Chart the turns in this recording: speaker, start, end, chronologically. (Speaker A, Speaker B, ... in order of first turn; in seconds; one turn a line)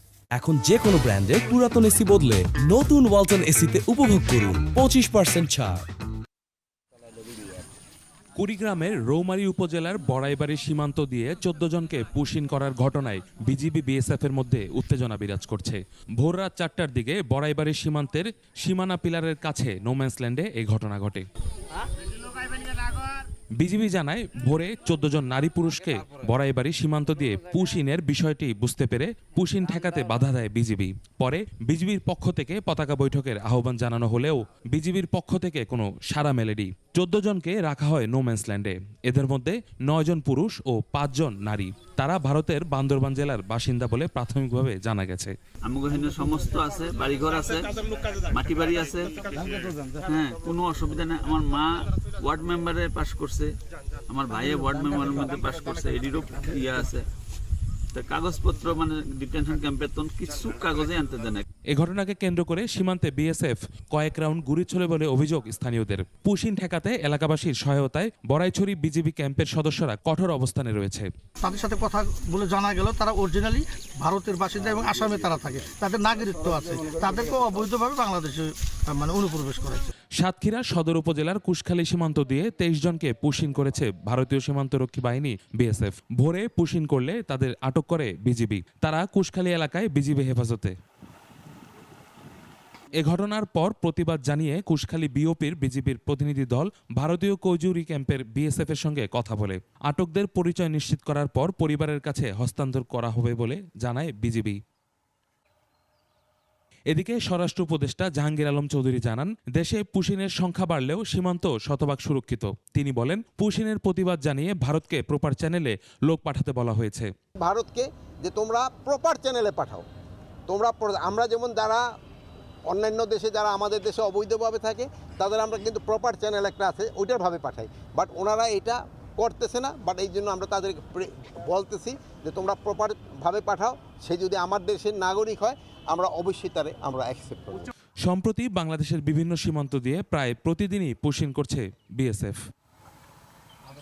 Speaker A: 0.3-5.8
Speaker B: 8.4-21.2
Speaker B: 23.6-45.3
Speaker C: 45.6-47.7
Speaker C: 48.3-49.2
Speaker C: 50.0-57.1
Speaker C: 57.9-61.4
Speaker B: 61.7-71.1
Speaker D: 71.4-79.9
Speaker B: 80.2-90.7
Speaker B: 93.0-104.6
Speaker B: 106.9-117.1
Speaker E: 117.3-119.8
Speaker E: 120.5-121.8
Speaker E: 122.7-137.7
Speaker B: 138.0-142.4